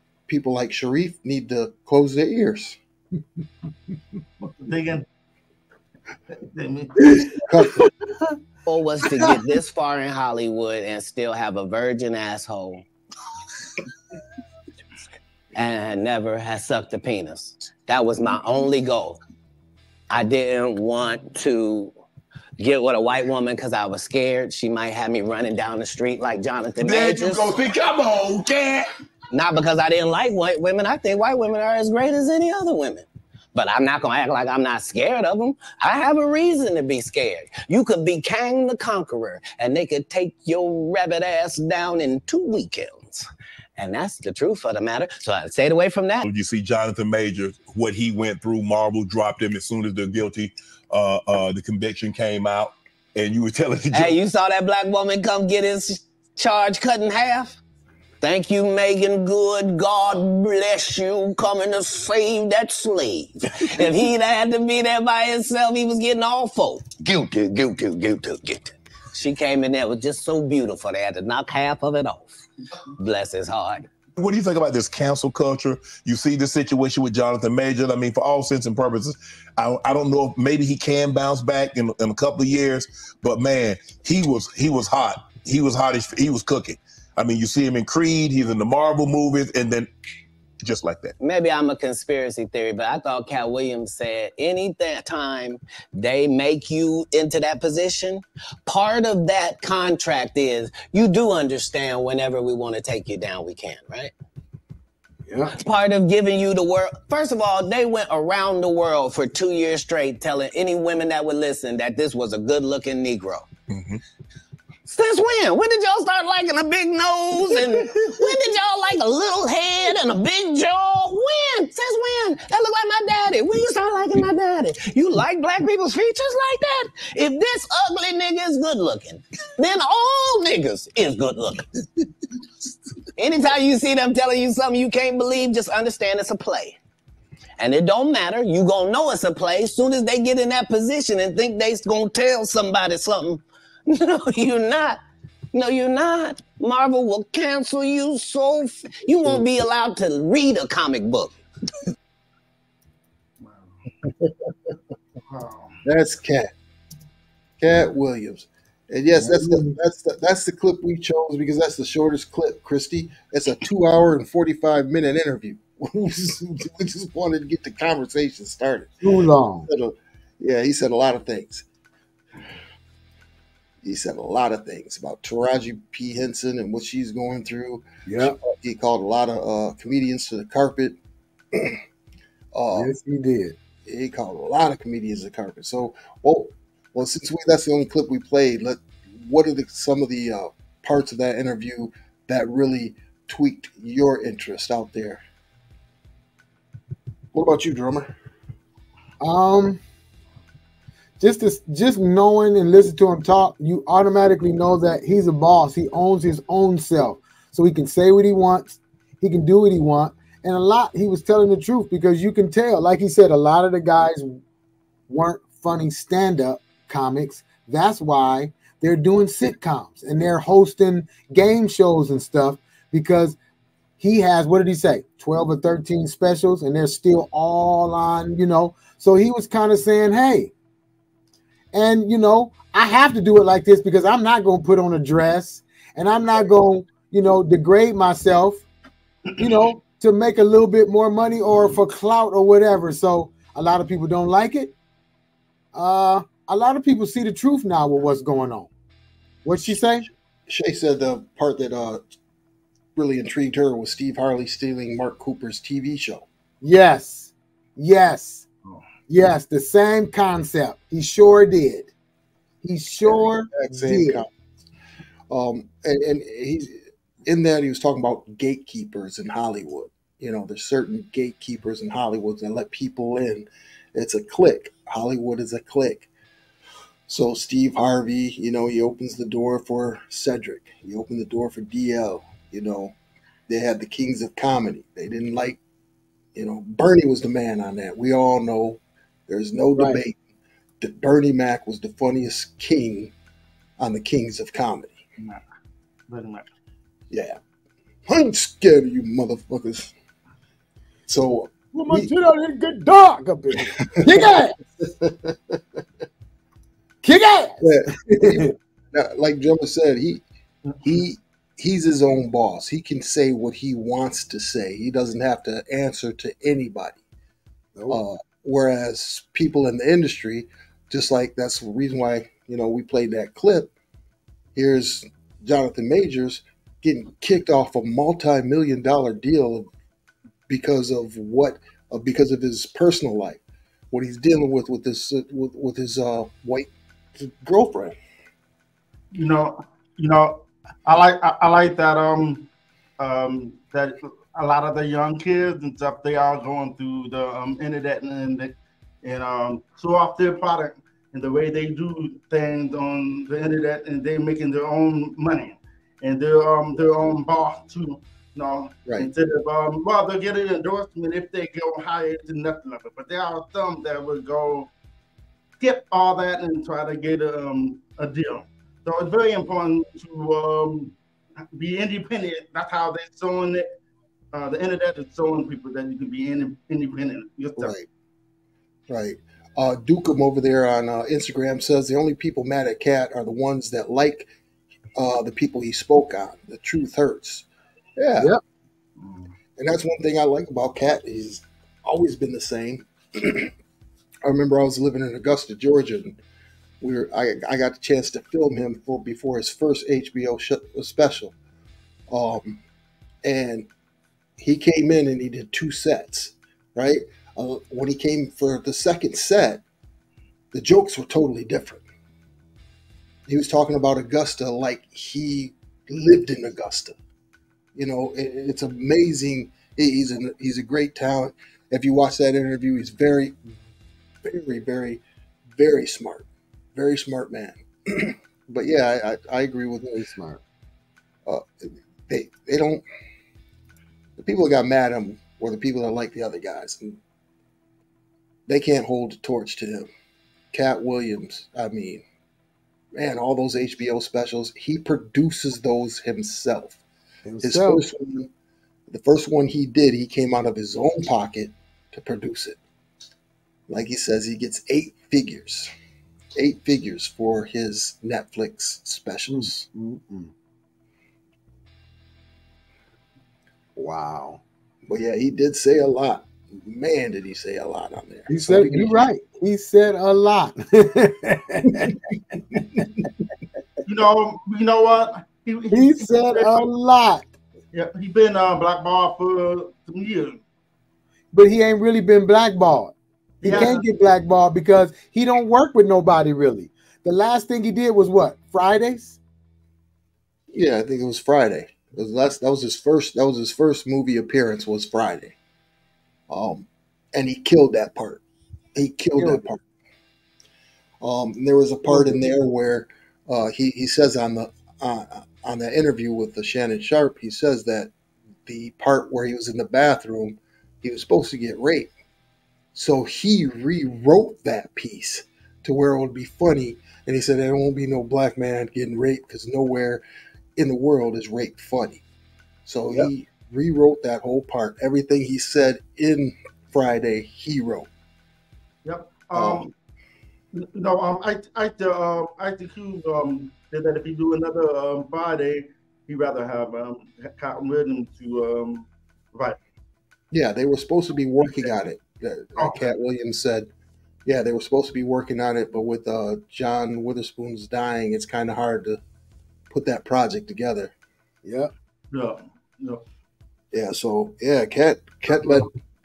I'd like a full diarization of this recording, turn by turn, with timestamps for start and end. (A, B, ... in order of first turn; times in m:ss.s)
0:00.3-0:02.8 A
0:04.4-0:05.0 B
0:06.4-0:07.1 B
0:07.4-0:07.9 A
0:08.6-0:12.8 C
0:15.5-0:19.2 C
0:20.1-0:21.9 C
0:22.6-0:27.6 C
0:27.1-0:27.9 D
0:29.3-0:46.2 C
0:46.2-0:54.2 D
0:53.9-0:57.6 C
0:58.2-1:12.4 C
1:13.0-1:13.9 C
1:14.2-1:29.9 D
1:30.6-1:31.1 D
1:31.2-1:44.1 C
1:45.3-1:45.5 E
1:45.5-1:53.5 C
1:53.7-1:54.0 D
1:54.9-2:11.7 C
2:13.2-2:16.8 C
2:17.6-2:25.0 C
2:25.5-2:31.3 C
2:33.4-2:33.7 B
2:35.3-2:35.8 B
2:35.8-2:36.5 A
2:37.6-2:48.9 A
2:39.2-2:39.7 E
2:49.0-2:49.7 E
2:49.7-2:51.6 A
2:53.8-3:01.0 A
2:58.0-2:58.4 E
3:01.5-3:01.8 A
3:02.5-3:02.9 A
3:02.7-3:03.6 E
3:03.8-3:15.2 A
3:17.3-3:18.1 A
3:19.2-3:19.8 E
3:21.2-3:34.4 E
3:35.1-3:43.4 E
3:44.0-3:50.5 E
3:51.7-3:58.6 E
3:59.4-4:04.7 E
4:05.7-4:08.7 E
4:09.4-4:10.1 E
4:10.5-4:12.0 A
4:13.0-4:16.2 A
4:16.6-4:18.4 E
4:19.1-4:21.9 E
4:22.6-4:24.2 E
4:23.0-4:24.3 A
4:25.3-4:36.1 A
4:37.1-4:42.9 A
4:43.5-4:45.6 A
4:46.3-4:50.2 A
4:49.8-4:50.0 E
4:50.8-4:53.1 A
4:53.8-4:55.0 A
4:56.1-4:56.5 B
4:57.1-4:57.4 A
4:58.1-4:59.9 A
5:01.1-5:02.1 A
5:01.7-5:04.6 E
5:04.0-5:05.6 A
5:07.0-5:08.5 E
5:07.6-5:10.2 A
5:10.8-5:17.0 A
5:17.9-5:23.7 A
5:24.5-5:29.7 A
5:30.5-5:38.0 A
5:39.1-5:42.5 B
5:43.0-6:04.7 B
6:05.6-6:10.9 B
6:11.5-6:13.6 B
6:14.3-6:17.7 B
6:17.6-6:17.8 A
6:18.9-6:24.3 A
6:25.0-6:28.3 A
6:29.0-6:29.3 B
6:29.6-6:33.5 A
6:34.2-6:36.2 A
6:36.8-6:41.3 A
6:42.1-6:42.6 A
6:43.2-6:43.7 A
6:44.4-6:49.6 A
6:50.5-6:51.8 A
6:53.3-6:57.0 A
6:57.7-7:03.4 A
7:04.2-7:05.0 A
7:05.6-7:10.0 A
7:09.9-7:10.4 E
7:11.2-7:12.8 A
7:14.2-7:17.0 A
7:18.5-7:19.9 A
7:20.5-7:22.0 A
7:22.9-7:26.8 A
7:27.2-7:27.8 E
7:27.4-7:28.3 A
7:28.9-7:32.6 A
7:33.7-7:35.7 A
7:36.3-7:39.7 A
7:39.3-7:40.3 E
7:43.8-7:44.4 E
7:44.9-7:49.0 A
7:48.3-7:51.9 E
7:52.5-7:52.8 A
7:53.8-7:56.6 B
7:55.7-7:57.3 E
7:57.7-8:00.4 B
8:01.3-8:09.2 E
8:03.4-8:03.8 B
8:10.5-8:15.3 A
8:16.3-8:18.2 A
8:18.7-8:19.6 A
8:19.2-8:19.4 E
8:21.0-8:27.9 A
8:21.9-8:22.2 E
8:28.4-8:31.9 A
8:32.7-8:40.0 A
8:40.6-8:42.0 A
8:42.6-8:47.9 A
8:48.8-8:49.7 B
8:49.3-8:49.7 A
8:50.5-8:59.6 B
9:00.3-9:03.7 A
9:02.6-9:02.8 B
9:04.2-9:09.0 A
9:09.7-9:10.9 A
9:11.4-9:11.7 E
9:12.1-9:13.0 B
9:13.7-9:15.7 A